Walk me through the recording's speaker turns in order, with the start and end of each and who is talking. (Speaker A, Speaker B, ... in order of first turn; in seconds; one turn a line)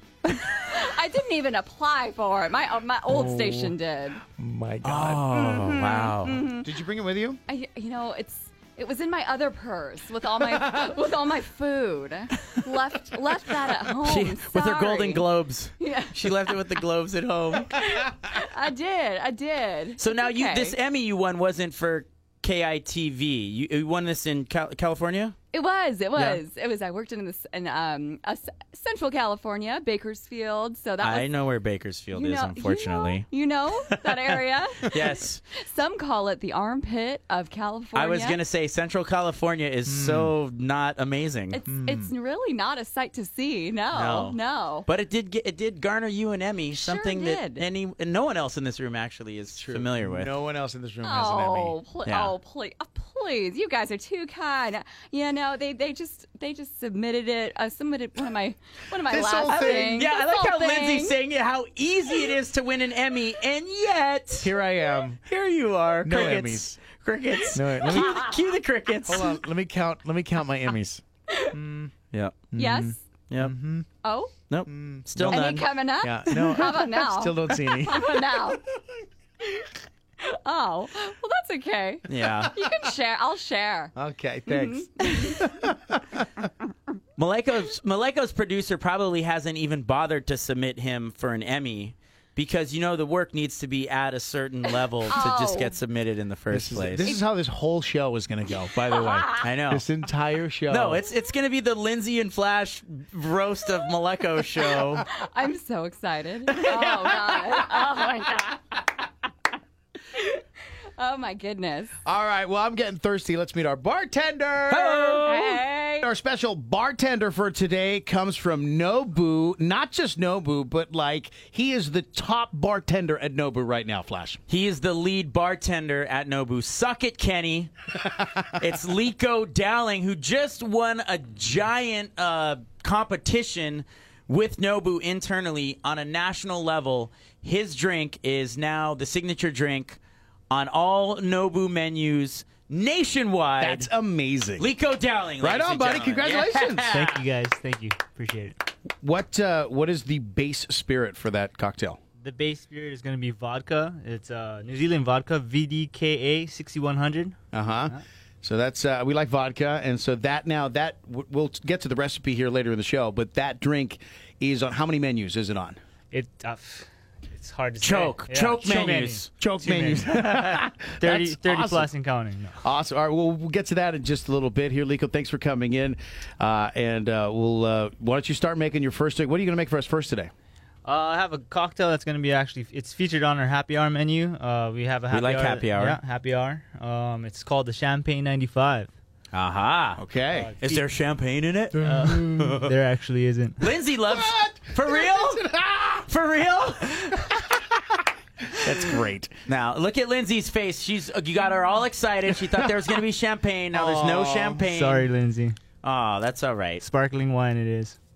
Speaker A: 0.4-4.2
Speaker B: 3.1-3.7
Speaker B: 4.3-5.4
Speaker C: 4.8-6.4
Speaker A: 5.3-6.7
Speaker B: 6.5-7.4
Speaker A: 7.5-15.2
Speaker B: 10.6-10.9
Speaker C: 14.0-17.8
Speaker A: 15.8-16.4
Speaker A: 17.6-20.8
Speaker C: 20.0-25.4
Speaker A: 25.5-31.3
Speaker C: 31.0-33.3
Speaker A: 32.1-38.4
Speaker C: 33.8-34.3
Speaker C: 34.8-35.4
Speaker C: 37.9-41.6
Speaker B: 39.9-40.3
Speaker A: 41.5-44.9
Speaker B: 41.7-42.1
Speaker C: 43.9-50.3
Speaker A: 46.7-47.6
Speaker B: 49.5-51.8
Speaker A: 51.0-61.1
Speaker C: 52.0-52.3
Speaker B: 59.0-60.1
Speaker C: 59.7-64.5
Speaker B: 64.4-65.2
Speaker C: 65.2-69.4
Speaker B: 66.0-66.8
Speaker B: 67.5-68.2
Speaker A: 67.9-68.3
Speaker B: 69.1-71.9
Speaker A: 71.3-71.6
Speaker C: 72.1-72.5
Speaker B: 72.5-73.9
Speaker A: 72.5-73.0
Speaker C: 73.3-73.5
Speaker A: 74.0-74.3
Speaker C: 74.5-75.7
Speaker B: 74.7-78.6
Speaker A: 75.3-78.6
Speaker A: 79.4-79.7
Speaker A: 80.2-83.9
Speaker C: 82.1-82.5
Speaker B: 83.9-86.5
Speaker A: 84.5-85.5
Speaker C: 87.2-97.1
Speaker A: 95.1-95.8
Speaker B: 96.5-101.1
Speaker C: 99.4-99.8
Speaker C: 100.7-105.0
Speaker A: 105.1-108.6
Speaker C: 106.7-107.3
Speaker A: 110.1-110.4
Speaker A: 111.0-111.9
Speaker B: 112.0-115.3
Speaker C: 114.7-115.6
Speaker A: 115.2-116.1
Speaker B: 116.0-124.4
Speaker C: 124.5-127.7
Speaker B: 128.1-128.5
Speaker C: 128.5-140.0
Speaker C: 140.5-143.9
Speaker B: 143.6-144.7
Speaker C: 144.6-147.2
Speaker B: 145.4-146.9
Speaker D: 146.9-148.6
Speaker B: 148.9-152.0
Speaker D: 152.2-157.4
Speaker B: 157.5-165.8
Speaker D: 166.1-172.6
Speaker C: 167.8-169.3
Speaker B: 169.4-171.9
Speaker B: 172.6-180.3
Speaker D: 180.8-188.9
Speaker C: 185.1-186.0
Speaker C: 189.3-190.0
Speaker B: 190.0-190.5
Speaker D: 190.3-190.8
Speaker C: 190.6-192.7
Speaker D: 191.8-193.6
Speaker B: 191.8-192.6
Speaker C: 193.6-195.5
Speaker B: 194.1-196.1
Speaker C: 196.0-197.4
Speaker B: 197.2-199.4
Speaker C: 199.5-205.1
Speaker B: 202.4-202.9
Speaker B: 203.7-204.6
Speaker D: 204.6-205.6
Speaker C: 205.8-206.8
Speaker D: 206.8-208.0